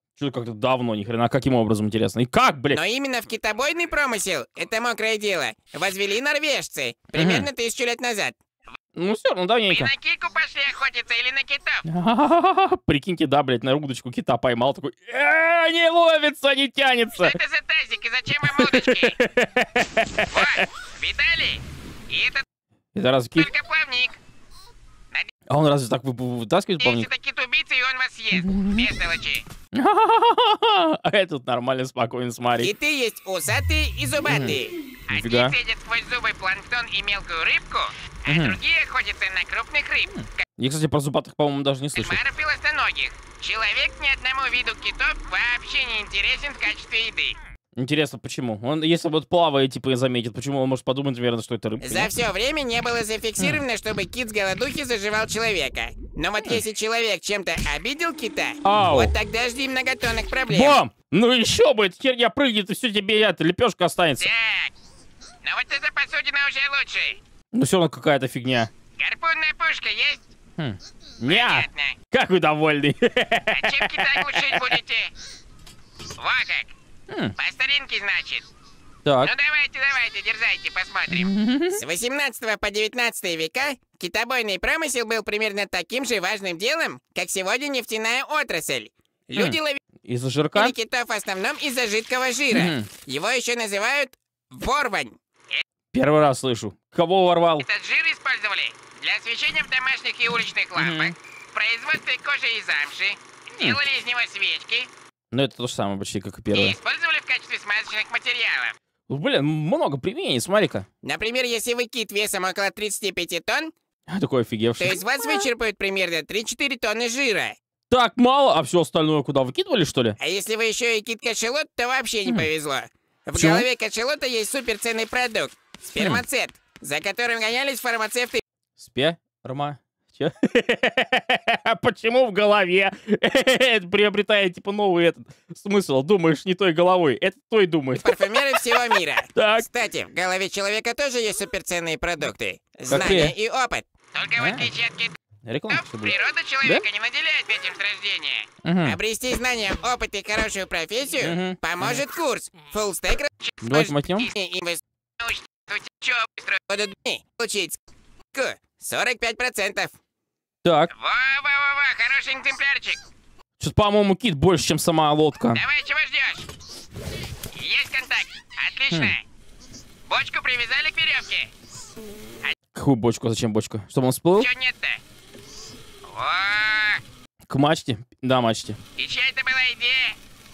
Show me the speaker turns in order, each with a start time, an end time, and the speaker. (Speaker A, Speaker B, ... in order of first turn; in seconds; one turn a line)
Speaker A: 0.2-2.8
Speaker B: 2.7-8.4
Speaker A: 7.1-7.5
Speaker A: 8.9-9.9
Speaker B: 9.7-11.8
Speaker A: 11.8-17.4
Speaker B: 17.1-19.2
Speaker A: 18.4-20.6
Speaker B: 20.3-22.4
Speaker A: 22.9-23.5
Speaker B: 23.4-24.2
Speaker A: 25.5-27.1
Speaker B: 26.8-29.4
Speaker A: 28.4-28.8
Speaker A: 29.7-32.7
Speaker B: 32.6-40.4
Speaker A: 34.2-34.5
Speaker A: 35.1-35.5
Speaker A: 38.3-38.6
Speaker A: 40.2-42.2
Speaker B: 42.0-47.4
Speaker A: 47.8-52.1
Speaker B: 51.8-60.8
Speaker A: 58.6-59.1
Speaker A: 60.5-64.3
Speaker B: 64.2-64.7
Speaker B: 65.4-67.2
Speaker A: 67.5-68.7
Speaker B: 69.0-70.2
Speaker A: 70.6-74.7
Speaker B: 71.2-72.0
Speaker B: 73.5-75.1
Speaker B: 76.2-76.7
Speaker B: 77.4-78.5
Speaker A: 79.0-79.3
Speaker B: 79.2-89.8
Speaker A: 81.1-81.8
Speaker A: 89.3-90.7
Speaker B: 90.5-95.6
Speaker A: 92.5-92.9
Speaker A: 95.9-97.7
Speaker B: 97.6-104.9
Speaker A: 100.8-101.1
Speaker A: 105.3-106.8
Speaker B: 106.5-108.7
Speaker A: 109.1-110.8
Speaker B: 111.0-113.7
Speaker A: 114.1-115.4
Speaker B: 114.8-117.5
Speaker A: 117.9-120.2
Speaker B: 120.2-128.4
Speaker A: 123.3-123.7
Speaker A: 128.8-138.6
Speaker B: 138.0-145.2
Speaker A: 139.3-139.7
Speaker A: 142.9-143.3
Speaker A: 144.4-144.7
Speaker A: 145.4-146.8
Speaker B: 145.7-157.8
Speaker A: 148.6-149.0
Speaker A: 151.2-152.0
Speaker A: 153.6-154.3
Speaker B: 158.3-159.9
Speaker A: 160.6-160.9
Speaker B: 160.9-163.0
Speaker A: 163.6-165.6
Speaker B: 165.5-166.5
Speaker B: 167.5-169.2
Speaker B: 170.1-171.5
Speaker A: 172.7-174.5
Speaker B: 174.3-175.0
Speaker B: 176.1-177.0
Speaker A: 177.5-178.8
Speaker B: 179.0-180.2